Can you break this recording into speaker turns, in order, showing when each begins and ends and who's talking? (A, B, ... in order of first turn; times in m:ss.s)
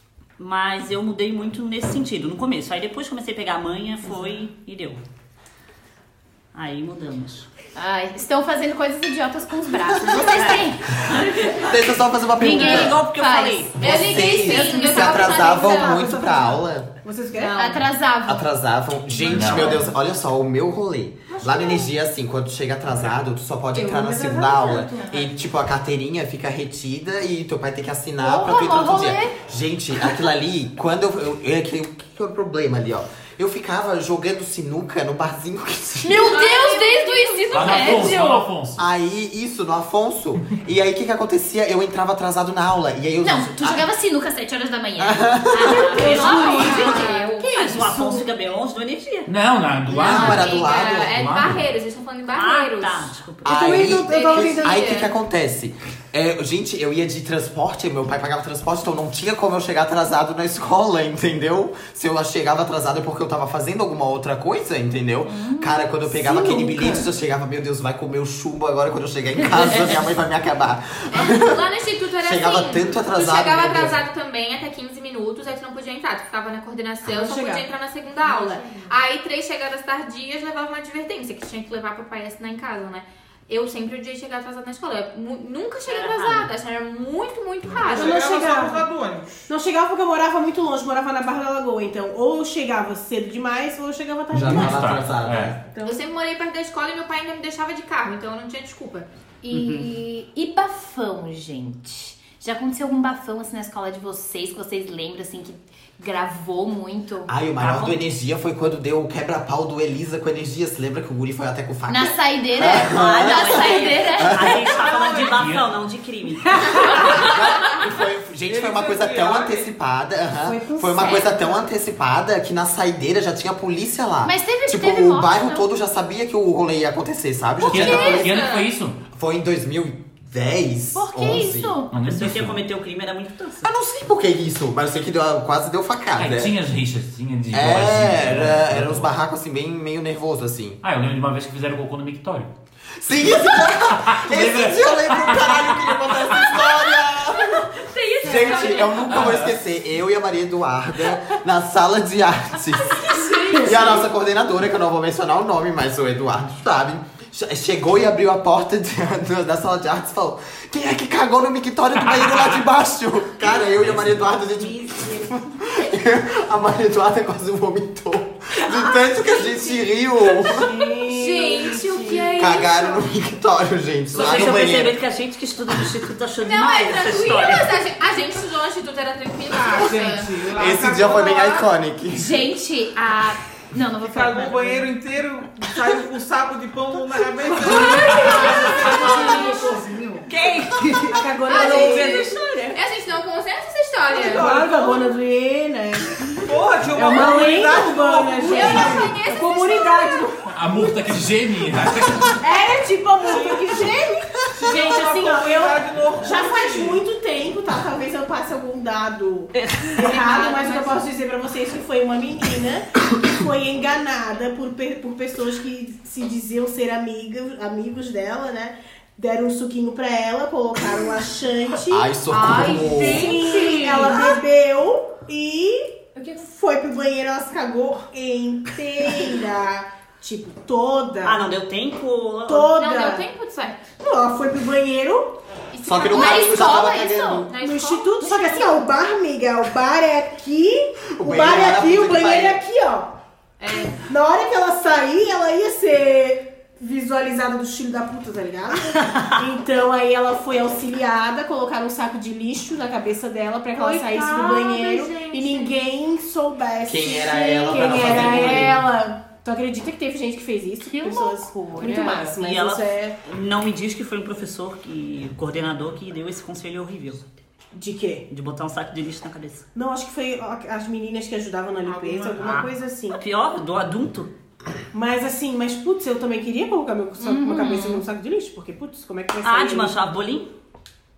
0:00.4-0:05.0 A
0:06.5-0:07.5 A
0:07.8-0:11.6 B
0:10.1-0:10.7 A
0:11.6-0:13.0 C
0:12.4-0:14.5 A
0:12.4-0:13.7 B
0:13.8-0:16.9 C
0:13.8-0:15.9 D
0:14.6-0:17.9 E
0:17.4-0:18.5 B
0:18.2-0:36.4 C
0:19.3-0:19.9 F
0:21.3-0:21.9 E
0:23.7-0:25.2 E
0:24.8-0:25.2 B
0:28.2-0:29.4 B
0:36.0-0:38.5 B
0:36.2-0:38.3 D
0:37.5-0:38.9 F
0:38.8-0:43.9 C
0:43.2-0:47.2 B
0:45.0-0:46.0 C
0:45.7-0:48.3 E
0:46.0-0:47.7 D
0:47.6-0:49.3 A
0:49.3-0:51.7 F
0:49.9-0:51.1 C
0:50.0-0:53.1 D
0:50.0-0:50.4 B
0:52.3-0:53.8 A
0:53.4-0:54.8 E
0:53.4-1:11.6 C
0:54.0-0:55.1 D
1:05.2-1:05.9 B
1:06.1-1:07.1 E
1:11.1-1:28.2 D
1:12.2-1:14.0 C
1:17.1-1:17.7 E
1:25.9-1:26.5 A
1:27.8-1:29.4 G
1:27.9-1:28.8 E
1:29.5-1:35.0 E
1:34.3-1:35.6 C
1:34.3-1:35.6 F
1:35.6-1:36.0 E
1:35.8-1:39.1 D
1:39.4-1:47.3 B
1:39.5-1:39.9 A
1:47.3-1:54.7 C
1:47.6-1:48.0 A
1:51.9-1:54.6 B
1:52.6-1:57.1 A
1:54.7-1:55.4 G
1:55.3-1:55.7 F
1:56.8-1:57.1 B
1:57.1-2:08.5 C
1:58.5-1:59.7 G
2:00.4-2:01.6 E
2:04.2-2:05.7 B
2:07.6-2:08.7 D
2:07.7-2:09.0 F
2:09.1-2:11.8 C
2:11.0-2:11.9 B
2:11.9-2:12.6 F
2:12.0-2:13.7 A
2:13.6-2:16.5 C
2:16.2-2:19.1 F
2:17.5-2:20.8 C
2:20.8-2:22.5 F
2:23.0-2:27.7 C
2:23.4-2:26.2 F
2:27.8-2:29.1 D
2:28.2-2:50.7 C
2:28.4-2:28.9 B
2:29.1-2:29.6 F
2:33.0-2:33.8 D
2:33.5-2:33.9 E
2:42.0-2:42.6 F
2:43.7-2:44.3 F
2:49.1-2:49.8 D
2:50.5-2:52.3 E
2:50.6-2:53.1 D
2:52.4-2:55.0 C
2:54.1-2:57.7 A
2:56.4-3:00.3 D
2:59.7-3:01.7 G
3:00.5-3:02.4 C
3:02.1-3:04.9 B
3:04.0-3:10.3 G
3:07.4-3:09.7 E
3:07.8-3:09.6 B
3:10.3-3:11.2 A
3:10.8-3:12.8 E
3:11.4-3:14.5 D
3:11.6-3:12.2 G
3:11.6-3:11.9 B
3:14.1-3:21.1 E
3:14.2-3:15.1 G
3:16.4-3:19.1 G
3:18.4-3:20.3 D
3:20.5-3:22.4 F
3:22.3-3:42.1 E
3:24.5-3:27.0 G
3:29.5-3:30.1 A
3:30.1-3:30.9 B
3:30.1-3:30.9 D
3:41.9-3:43.4 C
3:42.3-3:44.4 D
3:42.7-3:51.4 E
3:51.2-3:52.7 A
3:52.5-3:53.2 E
3:52.7-3:53.8 D
3:54.0-3:55.4 E
3:55.7-3:57.0 D
3:55.8-3:57.4 C
3:56.1-3:57.5 B
3:57.5-4:03.2 E
3:57.5-3:58.1 D
3:58.2-3:58.8 B
4:01.2-4:02.6 C
4:03.6-4:04.0 D
4:04.0-4:23.2 E
4:13.8-4:15.7 B
4:14.3-4:15.6 D
4:16.8-4:18.8 C
4:17.7-4:18.0 B
4:20.9-4:22.4 B
4:22.3-4:27.3 A
4:27.7-4:28.3 E
4:28.3-4:29.7 A
4:29.7-4:33.2 E
4:31.8-4:32.6 G
4:32.4-4:34.3 A
4:34.9-4:40.0 E
4:37.2-4:38.0 B
4:39.4-4:40.5 A